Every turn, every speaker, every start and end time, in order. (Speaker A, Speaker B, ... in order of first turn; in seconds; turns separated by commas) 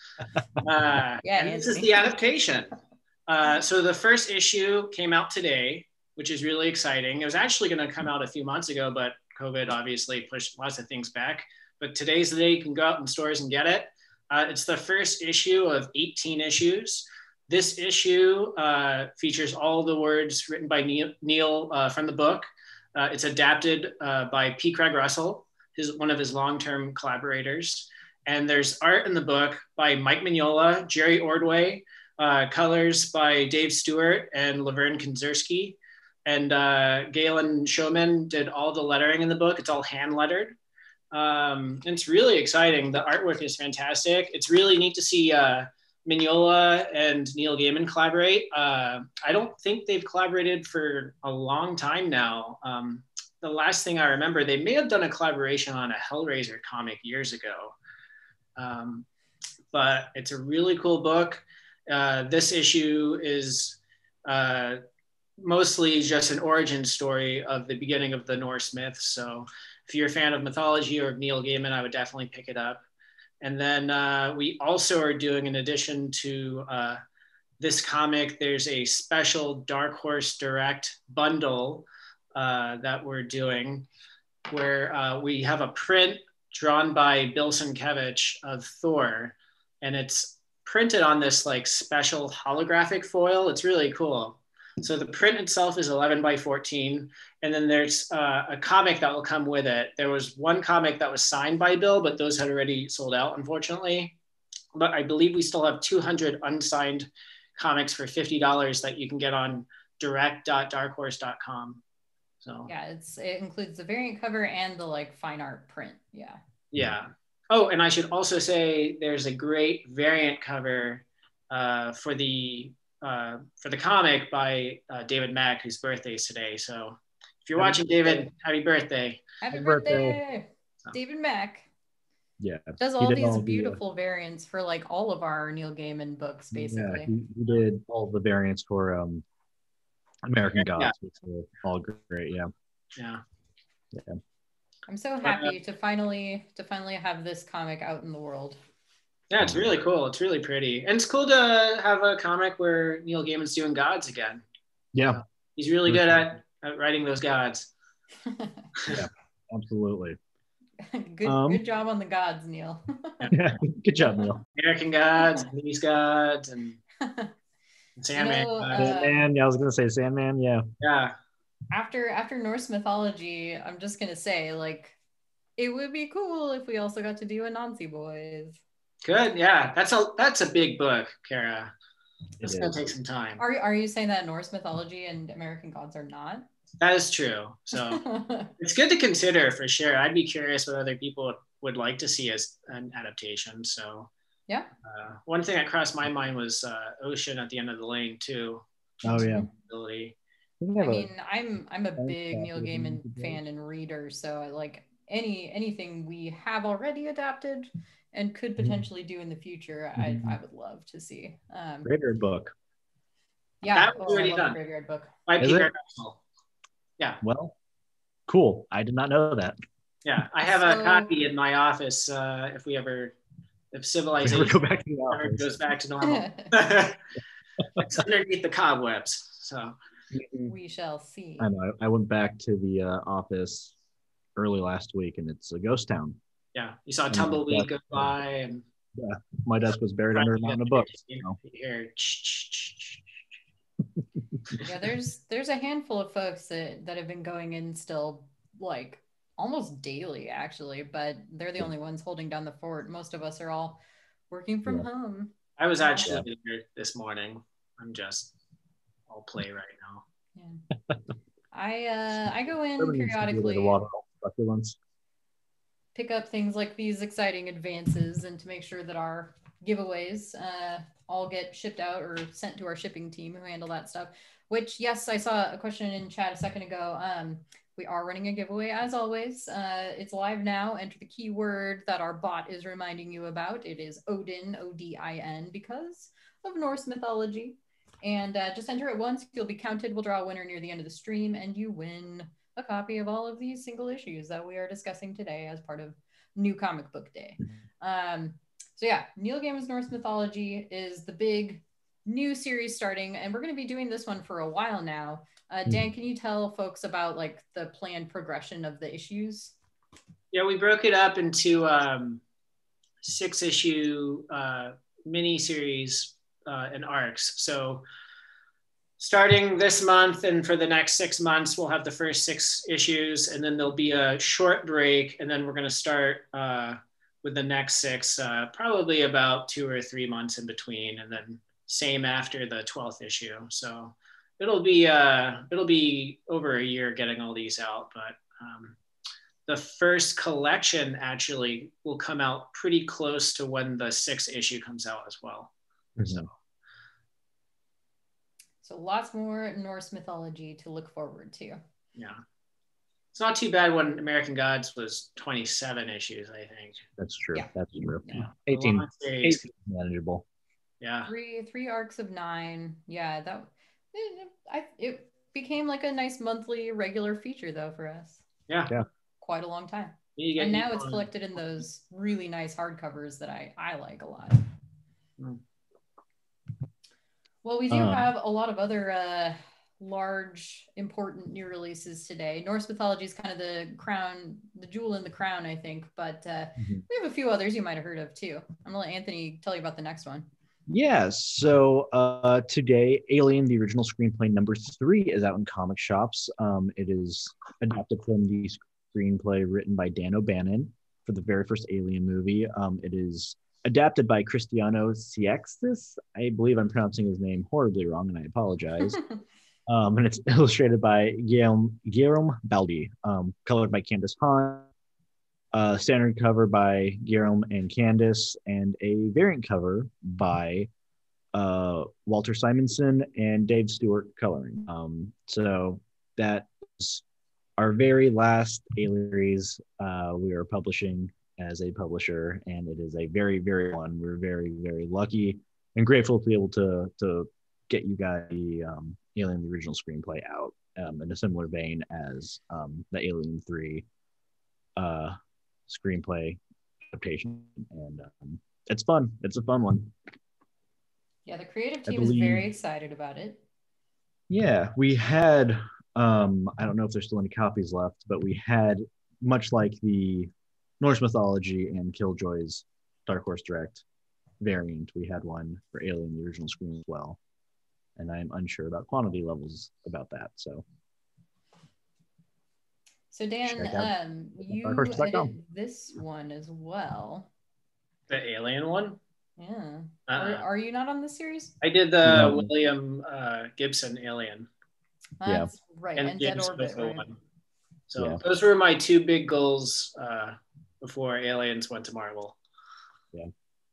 Speaker A: 0.6-2.7, Speaker B: 1.2-2.0, Speaker A: 3.3-40.6, Speaker A: 41.1-57.8, Speaker A: 58.6-59.1, Speaker A: 59.7-64.8, Speaker A: 65.4-72.8, Speaker A: 73.4-77.0, Speaker A: 77.6-83.9, Speaker A: 84.5-104.2, Speaker A: 104.8-111.8, Speaker A: 112.4-112.7, Speaker B: 112.7-116.4, Speaker A: 116.7-129.2, Speaker C: 127.6-128.2, Speaker B: 129.4-131.7, Speaker C: 129.5-130.2, Speaker C: 132.4-133.8, Speaker B: 132.8-137.1, Speaker C: 136.5-139.2, Speaker C: 140.2-142.5, Speaker A: 140.6-140.9, Speaker A: 143.0-143.2, Speaker C: 143.9-144.2, Speaker B: 144.9-148.6, Speaker A: 145.2-145.5, Speaker A: 149.3-154.4, Speaker C: 154.9-155.2, Speaker A: 155.6-157.7, Speaker C: 155.9-156.2, Speaker B: 158.3-158.7, Speaker A: 158.8-159.1, Speaker C: 158.9-160.2, Speaker B: 160.8-163.3, Speaker C: 161.2-161.6, Speaker C: 163.3-164.4, Speaker A: 164.6-166.8, Speaker B: 167.0-167.3, Speaker A: 168.0-168.9, Speaker B: 168.2-169.2, Speaker C: 168.8-170.7, Speaker A: 170.8-171.1, Speaker B: 171.7-175.0, Speaker B: 175.6-178.6, Speaker A: 179.0-181.7, Speaker C: 182.4-182.8, Speaker A: 182.4-183.4, Speaker B: 183.4-186.5, Speaker A: 186.8-188.1, Speaker B: 187.7-188.5, Speaker A: 188.6-194.1, Speaker A: 194.8-200.2, Speaker C: 199.0-199.5, Speaker B: 199.1-199.5, Speaker C: 200.6-201.1, Speaker B: 200.8-211.9, Speaker C: 202.0-203.4, Speaker C: 210.0-210.4, Speaker C: 211.8-212.5, Speaker B: 213.6-215.1, Speaker A: 213.8-214.6, Speaker A: 215.3-216.2, Speaker C: 215.4-215.7, Speaker C: 217.2-217.6, Speaker C: 218.3-219.6, Speaker A: 220.1-223.2, Speaker B: 220.5-221.1, Speaker A: 223.7-227.0, Speaker C: 224.2-225.5, Speaker B: 226.0-226.5, Speaker A: 227.8-229.7, Speaker C: 230.1-230.5, Speaker B: 230.5-231.5, Speaker C: 231.4-233.8, Speaker C: 234.4-236.2, Speaker A: 236.6-238.6, Speaker C: 237.1-238.1, Speaker C: 238.9-241.4, Speaker A: 240.1-243.0, Speaker B: 244.6-256.2, Speaker A: 255.6-258.3, Speaker A: 259.1-260.0, Speaker B: 261.5-263.8, Speaker C: 262.8-264.8, Speaker B: 265.9-309.5, Speaker A: 310.3-312.2, Speaker A: 313.0-317.9, Speaker A: 319.0-338.8, Speaker A: 339.5-346.3, Speaker C: 346.0-346.2, Speaker B: 348.6-351.6, Speaker A: 353.1-356.8, Speaker C: 357.0-360.2, Speaker A: 358.5-359.5, Speaker A: 360.8-361.1, Speaker B: 361.1-368.2, Speaker A: 368.5-368.7, Speaker B: 369.2-374.5, Speaker A: 370.2-371.1, Speaker B: 377.4-390.3, Speaker C: 377.7-378.1, Speaker C: 386.6-386.8, Speaker C: 390.7-409.0, Speaker C: 409.7-414.7, Speaker C: 415.5-420.7, Speaker C: 421.3-427.0, Speaker C: 427.6-443.9, Speaker C: 444.8-445.2, Speaker C: 445.7-449.9, Speaker B: 451.3-453.4, Speaker C: 451.9-452.5, Speaker C: 454.3-463.8, Speaker C: 464.4-467.2, Speaker C: 468.0-470.6, Speaker B: 473.1-477.3, Speaker C: 473.5-475.3, Speaker A: 478.1-479.0, Speaker B: 479.4-481.6, Speaker A: 480.1-480.4, Speaker A: 481.6-484.5, Speaker C: 482.0-482.5, Speaker B: 485.2-487.1, Speaker C: 485.2-485.5, Speaker A: 486.0-487.2, Speaker A: 487.9-492.4, Speaker C: 488.0-488.2